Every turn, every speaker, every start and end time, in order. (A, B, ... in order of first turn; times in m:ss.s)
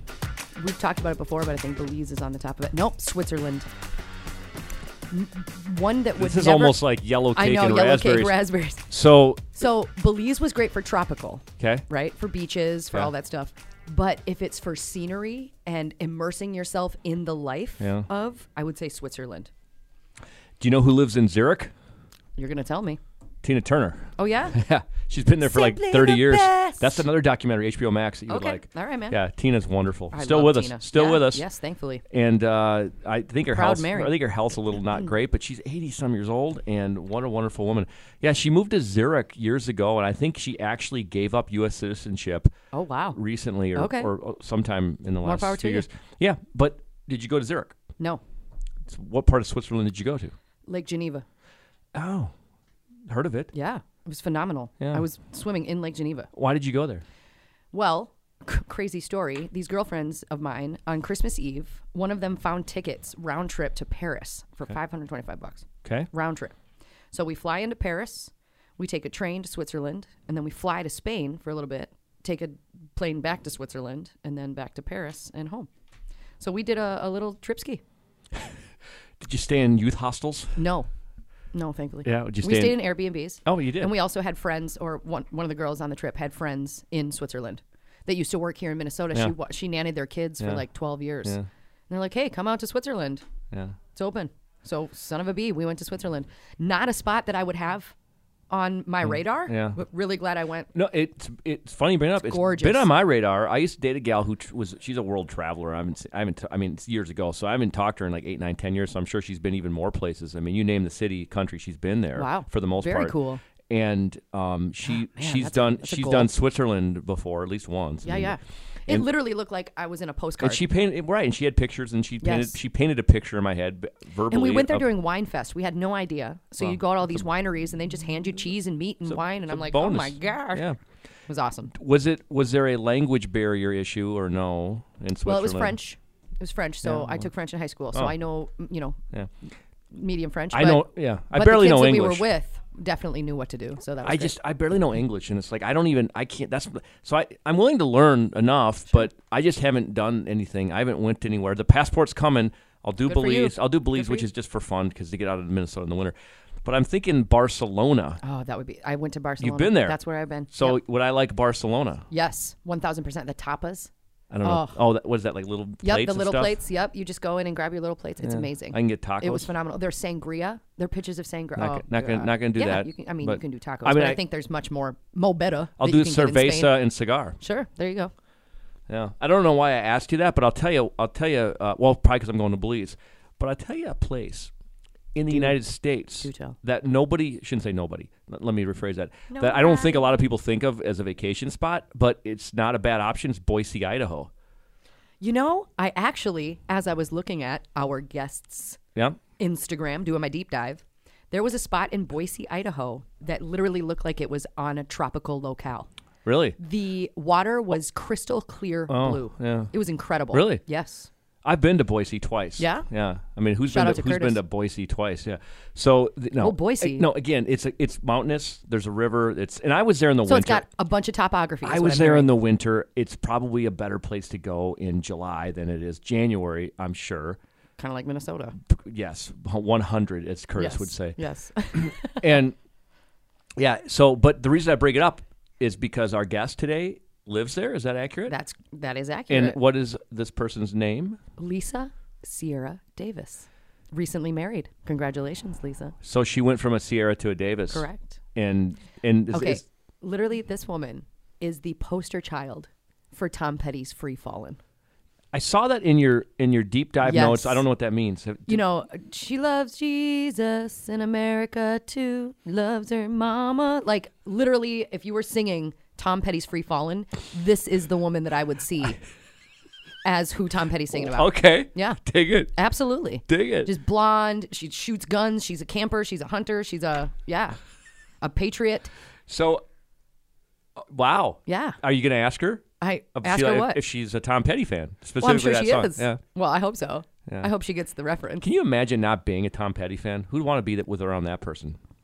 0:00.6-0:03.7 A
0:05.1-0:06.8 A
0:06.2-0:09.5 B
0:07.4-0:08.9 A
0:09.6-0:19.5 A
0:11.6-0:11.8 B
0:17.8-0:18.1 B
0:20.6-0:21.7 B
0:22.4-0:23.0 A
0:23.4-0:31.4 B
0:24.2-0:24.6 A
0:25.4-0:27.0 A
0:28.3-0:29.2 A
0:30.1-0:32.0 A
0:32.1-0:42.5 B
0:33.5-0:34.1 A
0:42.7-0:43.2 A
0:43.1-0:47.8 B
0:43.8-0:44.1 A
0:45.2-0:45.9 A
0:48.9-0:50.3 B
0:50.7-0:51.2 A
0:51.9-0:52.3 B
0:53.1-0:53.5 B
0:53.5-0:56.3 A
0:54.8-0:55.0 B
0:56.3-0:57.0 B
0:57.7-1:06.6 A
1:05.8-1:06.1 B
1:07.1-1:15.7 A
1:16.4-1:17.8 A
1:19.2-1:20.6 B
1:20.6-1:20.9 A
1:21.5-1:31.4 A
1:22.0-1:22.9 B
1:23.4-1:23.9 B
1:31.9-1:33.2 A
1:34.0-1:37.9 A
1:38.5-1:40.7 A
1:39.1-1:39.8 B
1:40.7-1:53.2 B
1:42.2-1:42.9 A
1:52.2-1:53.4 A
1:53.7-1:59.0 B
1:54.9-1:56.3 A
1:58.0-2:00.6 A
2:00.4-2:04.9 B
2:02.2-2:02.6 A
2:04.3-2:10.7 A
2:06.6-2:07.2 B
2:09.1-2:10.8 B
2:11.3-2:11.7 A
2:11.7-2:15.8 B
2:15.2-2:19.0 A
2:16.8-2:17.3 B
2:19.9-2:24.3 A
2:20.5-2:22.3 B
2:24.0-2:38.2 B
2:33.1-2:34.3 A
2:38.2-2:40.8 A
2:39.4-2:40.0 B
2:40.5-2:42.1 B
2:42.1-2:43.9 A
2:44.3-2:46.6 B
2:44.4-2:44.8 A
2:45.8-2:56.8 A
2:48.2-2:49.5 B
2:51.6-2:54.2 B
2:55.8-2:57.4 B
2:57.4-2:58.1 A
2:58.9-3:04.5 B
3:05.2-3:14.3 B
3:05.3-3:05.6 A
3:06.2-3:06.6 A
3:09.3-3:10.1 A
3:15.2-3:18.8 A
3:19.4-3:25.9 A
3:26.2-3:26.6 B
3:26.6-3:31.1 A
3:28.9-3:29.7 B
3:30.3-3:30.6 B
3:31.4-3:40.7 B
3:32.6-3:32.9 A
3:33.7-3:34.4 A
3:36.4-3:37.1 A
3:40.3-3:42.3 A
3:41.6-3:47.4 B
3:47.8-3:48.6 A
3:48.7-3:51.2 B
3:50.6-3:52.2 A
3:51.7-3:52.6 B
3:53.6-3:58.4 B
3:58.3-3:59.6 A
3:59.3-4:01.2 B
4:01.4-4:05.9 A
4:06.0-4:09.6 B
4:07.7-4:08.2 A
4:09.3-4:14.6 A
4:15.3-4:18.6 B
4:17.0-4:17.6 A
4:18.5-4:29.0 A
4:30.0-4:32.0 A
4:31.0-4:32.6 B
4:32.6-4:37.6 A
4:33.3-4:33.7 B
4:38.2-4:38.9 A
4:39.3-4:39.6 B
4:40.9-4:46.2 B
4:41.5-4:41.8 A
4:42.8-4:43.8 A
4:45.2-4:48.5 A
4:48.4-4:51.8 B